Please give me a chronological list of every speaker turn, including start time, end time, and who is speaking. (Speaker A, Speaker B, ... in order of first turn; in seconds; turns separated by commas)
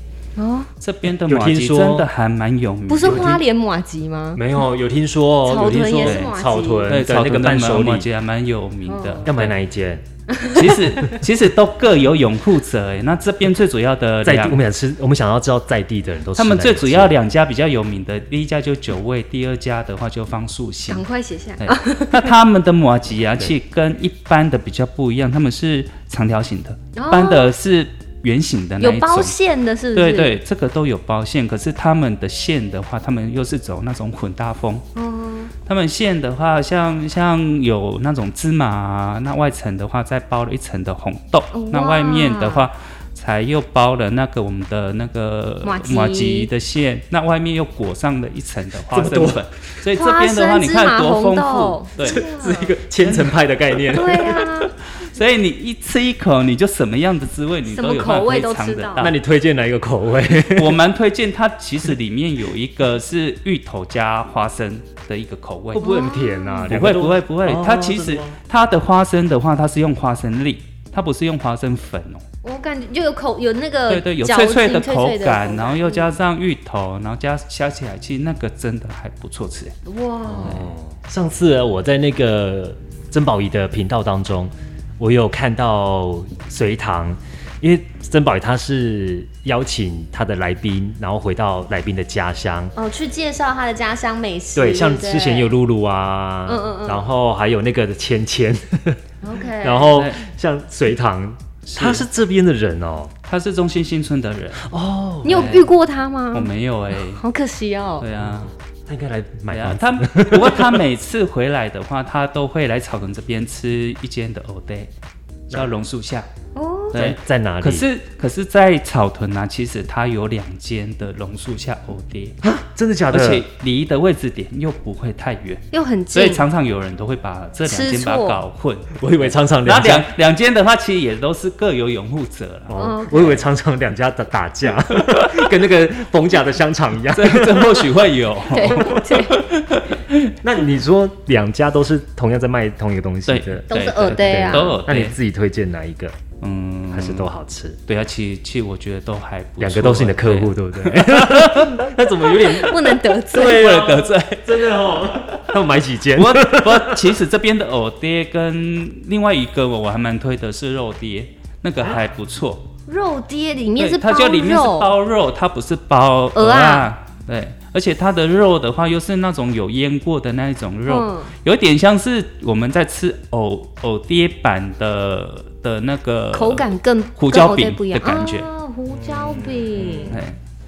Speaker A: 0.3-0.7, Speaker B: 0.8-3.4, Speaker C: 1.1-2.1, Speaker A: 2.9-4.4, Speaker C: 3.0-3.4, Speaker C: 4.3-8.1, Speaker A: 5.4-7.0, Speaker B: 6.0-6.3, Speaker B: 6.8-9.5, Speaker A: 8.8-9.3, Speaker C: 9.2-10.0, Speaker A: 10.3-11.2, Speaker B: 10.5-14.6, Speaker C: 14.2-17.1, Speaker B: 16.3-21.0, Speaker A: 20.9-22.3, Speaker B: 21.6-29.3, Speaker A: 26.9-27.5, Speaker A: 28.8-30.4, Speaker B: 29.9-34.8, Speaker A: 35.0-35.5, Speaker B: 35.6-52.2, Speaker A: 41.5-42.7, Speaker A: 45.6-46.5, Speaker C: 48.9-49.4, Speaker A: 49.9-52.7, Speaker C: 52.0-54.4, Speaker B: 53.0-59.2, Speaker A: 53.9-54.7, Speaker A: 57.6-59.1, Speaker C: 59.0-60.8, Speaker B: 60.5-65.9, Speaker C: 65.7-68.4, Speaker A: 65.8-66.7, Speaker B: 66.7-72.2, Speaker A: 72.4-76.1, Speaker B: 73.9-79.7, Speaker A: 79.8-80.6, Speaker C: 80.3-92.7, Speaker B: 80.4-80.7, Speaker A: 92.8-95.5, Speaker C: 94.5-99.0, Speaker A: 96.5-97.0, Speaker A: 99.2-100.0, Speaker C: 99.6-103.1, Speaker B: 99.9-100.2, Speaker B: 101.6-102.0, Speaker B: 103.2-104.7, Speaker C: 104.6-105.6, Speaker A: 105.2-108.0, Speaker B: 105.3-105.7, Speaker B: 106.3-107.2, Speaker B: 108.0-108.5, Speaker C: 108.9-110.8, Speaker B: 109.5-114.9, Speaker B: 115.5-116.3, Speaker A: 116.5-117.0, Speaker C: 116.9-117.8, Speaker B: 116.9-122.4, Speaker C: 122.4-123.5, Speaker B: 123.1-132.7, Speaker A: 125.7-126.4, Speaker A: 127.7-128.4, Speaker C: 128.9-130.1, Speaker C: 132.7-138.0, Speaker A: 132.8-133.4, Speaker B: 137.1-140.2, Speaker A: 138.5-139.4, Speaker C: 138.7-139.0, Speaker C: 140.4-146.2, Speaker B: 143.3-145.2, Speaker A: 143.7-144.8, Speaker B: 146.4-147.3, Speaker C: 146.9-147.8, Speaker B: 147.9-155.6, Speaker C: 149.6-157.1, Speaker A: 152.5-153.7, Speaker B: 156.1-162.6, Speaker A: 162.9-164.9, Speaker B: 163.8-178.5, Speaker A: 166.3-166.9, Speaker A: 170.9-171.3, Speaker A: 176.3-180.2, Speaker C: 178.9-180.2, Speaker B: 180.1-180.4